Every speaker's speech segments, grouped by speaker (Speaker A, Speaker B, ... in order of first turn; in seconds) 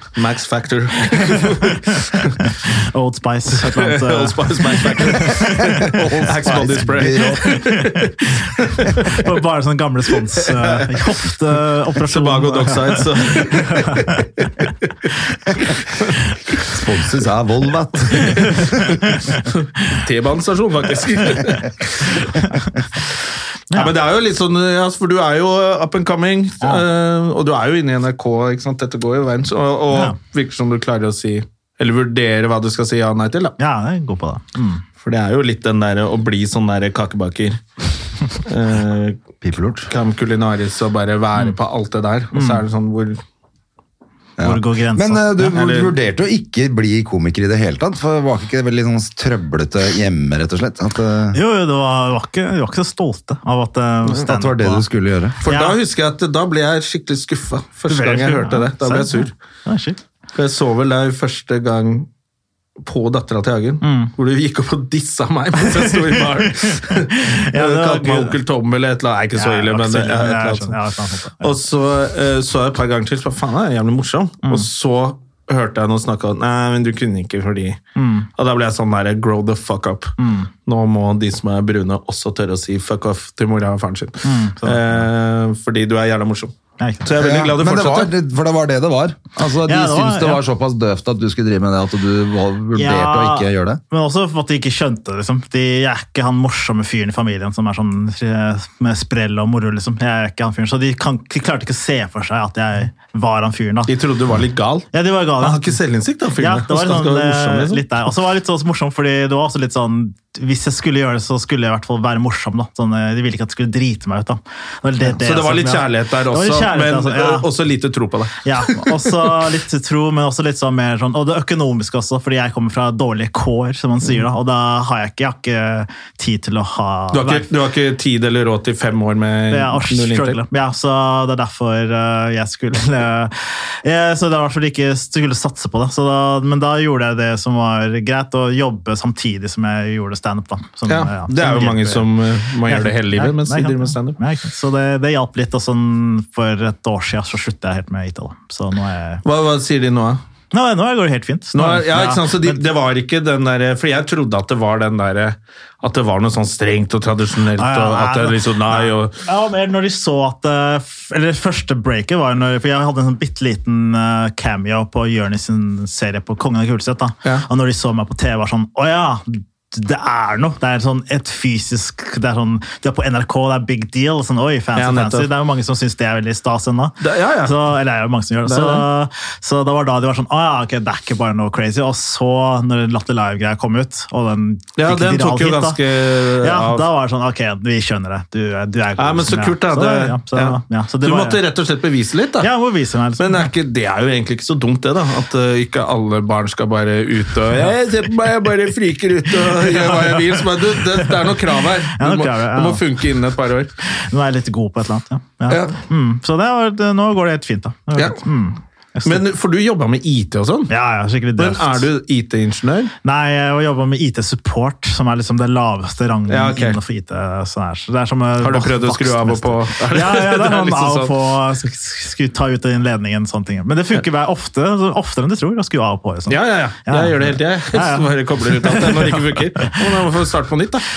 Speaker A: 0.1-2.4, 3.6-9.2, 10.4-10.9, 12.0-14.2, 18.2-18.8, 19.3-22.4, 23.7-33.6, 35.0-37.6, 38.3-39.2, 39.9-43.2, 45.5-45.9, 55.4-59.3, 60.3-62.1, 62.8-70.8, 71.4-77.8, 78.4-80.1, 80.7-88.1, 103.9-107.8, 115.0-119.3, 127.1-130.4, 140.9-144.2, 149.2-150.2, 151.5-159.2, 174.8-175.3, 177.0-177.6, 178.4-178.9, 184.8-186.9, 189.0-192.5, 193.2-203.7, 205.5-205.8, 207.9-208.2, 209.0-210.7, 211.4-212.9, 216.3-216.8, 218.4-221.1, 226.3-230.9
Speaker B: 1.3-6.7, 7.4-8.0, 8.8-14.3, 19.1-19.4, 22.4-22.7, 29.9-30.2, 33.6-34.8, 42.3-42.6, 44.4-45.6, 51.3-54.8, 55.4-55.8, 57.9-60.0, 63.8-64.1, 65.6-68.4, 69.3-71.5, 78.0-78.3, 80.2-80.5, 84.2-85.0, 86.8-87.1, 89.6-90.4, 92.7-103.9, 104.9-105.8, 106.4-117.5, 118.4-127.5, 129.5-142.1, 142.7-149.2, 150.5-152.6, 157.6-185.8, 186.4-191.4, 192.4-193.5, 199.6-201.3, 201.9-202.8, 203.9-209.2, 210.7-211.9, 213.0-229.8
Speaker C: 5.8-7.5, 16.6-18.9, 39.4-39.9, 44.4-51.4, 54.2-55.4, 87.1-93.8